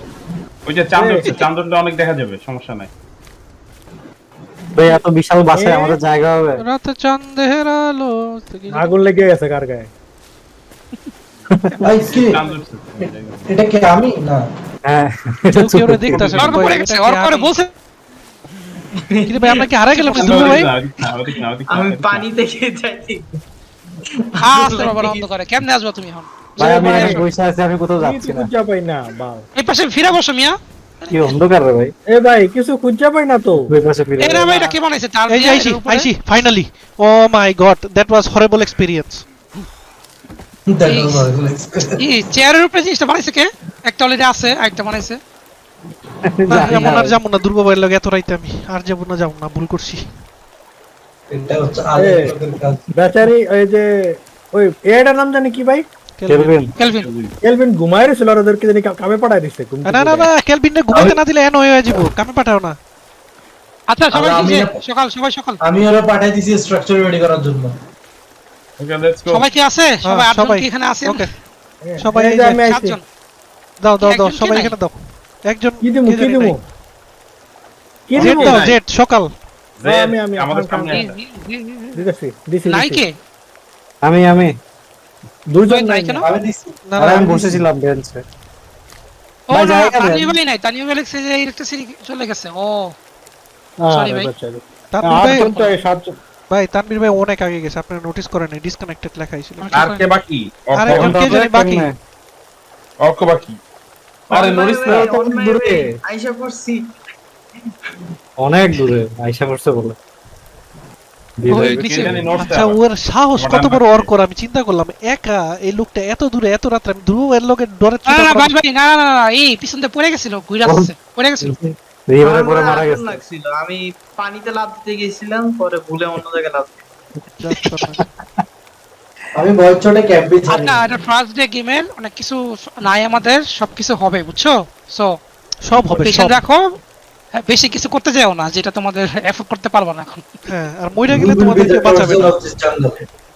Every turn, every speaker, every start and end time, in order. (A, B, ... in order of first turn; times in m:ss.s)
0:00.6-0:02.9 A
0:00.9-0:01.3 B
0:04.7-0:06.6 C
0:05.5-0:06.0 B
0:06.6-0:08.9 D
0:08.7-0:09.9 B
0:11.8-0:12.4 E
0:12.1-0:13.5 A
0:13.0-0:14.4 E
0:14.8-0:16.6 C
0:15.6-0:17.6 D
0:16.4-0:17.7 F
0:19.0-0:23.3 G
0:19.3-0:20.7 D
0:20.2-0:22.3 A
0:24.1-0:25.2 G
0:24.4-0:27.2 F
0:26.6-0:28.5 C
0:26.6-0:27.2 B
0:28.0-0:29.5 B
0:29.6-0:31.3 F
0:31.1-0:31.9 C
0:32.1-0:33.7 B
0:33.6-0:34.6 C
0:34.2-0:36.1 F
0:35.3-0:39.2 D
0:40.7-0:42.0 E
0:40.9-0:41.3 F
0:42.0-0:45.2 F
0:46.2-0:47.2 C
0:46.5-0:50.0 D
0:51.3-0:52.8 E
0:52.0-0:52.4 B
0:52.9-0:55.8 B
0:56.2-0:56.6 D
0:56.3-0:56.7 C
0:56.8-0:57.1 F
0:56.8-0:57.3 A
0:57.4-1:00.3 B
0:59.8-1:02.8 D
1:00.9-1:01.2 E
1:03.9-1:05.6 F
1:04.1-1:04.8 E
1:05.6-1:07.7 E
1:08.8-1:09.5 A
1:09.3-1:11.2 F
1:10.0-1:11.3 D
1:11.8-1:13.0 B
1:12.0-1:12.7 D
1:12.6-1:13.0 F
1:13.8-1:16.6 D
1:14.0-1:14.7 F
1:15.8-1:16.6 B
1:18.1-1:18.5 B
1:18.2-1:18.8 A
1:18.2-1:19.3 D
1:19.8-1:21.2 A
1:19.8-1:21.0 B
1:20.9-1:22.0 F
1:21.9-1:23.0 B
1:22.7-1:23.1 F
1:24.0-1:24.6 C
1:25.5-1:26.2 B
1:25.7-1:26.3 F
1:26.2-1:26.8 E
1:26.9-1:27.2 D
1:27.0-1:28.2 C
1:27.1-1:27.4 B
1:29.5-1:32.9 F
1:29.5-1:30.3 C
1:33.8-1:36.1 B
1:33.9-1:34.3 F
1:34.9-1:35.7 D
1:35.1-1:35.7 F
1:36.5-1:39.7 D
1:39.6-1:40.0 F
1:39.7-1:41.2 A
1:40.7-1:41.9 D
1:40.9-1:41.9 C
1:43.0-1:43.6 A
1:44.3-1:45.0 A
1:44.3-1:46.9 G
1:44.8-1:45.8 C
1:48.4-1:49.9 C
1:51.4-1:52.2 C
1:51.5-1:52.2 F
1:51.5-1:52.8 A
1:52.3-1:58.6 D
1:53.3-1:54.1 A
1:58.0-2:01.5 F
2:00.6-2:03.2 C
2:02.2-2:06.8 G
2:07.4-2:08.0 D
2:09.4-2:10.8 E
2:10.5-2:15.2 F
2:15.6-2:16.4 D
2:15.9-2:16.6 F
2:17.4-2:20.3 F
2:20.5-2:22.4 D
2:21.1-2:23.0 E